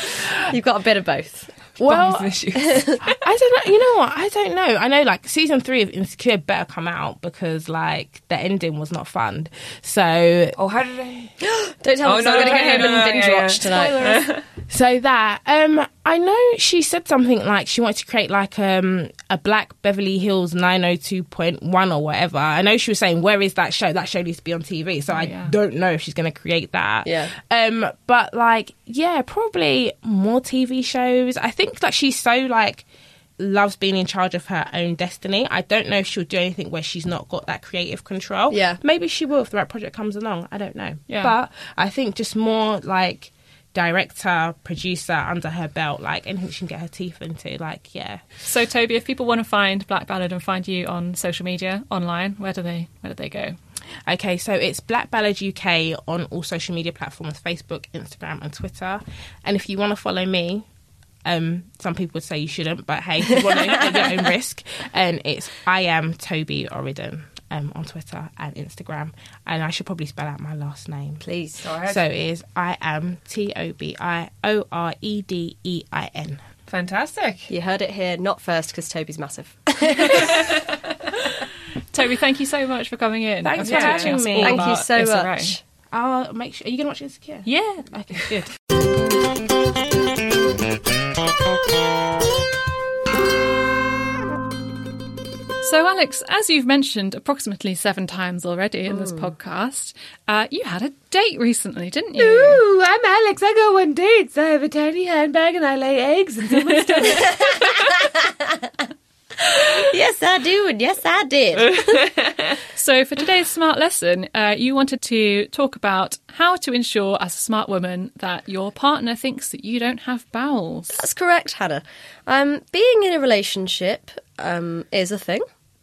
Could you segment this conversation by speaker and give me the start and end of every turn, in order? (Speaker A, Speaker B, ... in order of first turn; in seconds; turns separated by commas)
Speaker A: 0.4-1.5, Speaker B: 1.8-2.4, Speaker C: 1.9-3.1, Speaker A: 2.6-3.0, Speaker B: 3.0-10.6, Speaker C: 10.6-11.3, Speaker A: 11.4-14.2, Speaker C: 12.0-14.4, Speaker B: 14.7-32.9, Speaker D: 25.1-25.6, Speaker A: 27.1-27.3, Speaker B: 33.4-48.2, Speaker A: 38.5-38.8, Speaker D: 41.1-41.3, Speaker D: 48.4-53.6, Speaker B: 54.1-60.6, Speaker B: 61.2-71.3, Speaker A: 71.2-71.6, Speaker C: 71.6-72.0, Speaker B: 71.8-76.4, Speaker C: 76.7-77.5, Speaker A: 77.5-80.5, Speaker C: 80.2-80.5, Speaker D: 81.9-85.6, Speaker B: 83.4-84.7, Speaker C: 83.6-84.2, Speaker A: 84.4-85.6, Speaker B: 85.9-88.5, Speaker C: 87.5-88.3, Speaker D: 95.6-102.6, Speaker C: 102.2-108.1, Speaker D: 106.5-107.2, Speaker A: 107.1-108.5, Speaker A: 109.5-112.0, Speaker C: 111.6-112.6, Speaker D: 112.8-121.0, Speaker A: 120.9-125.4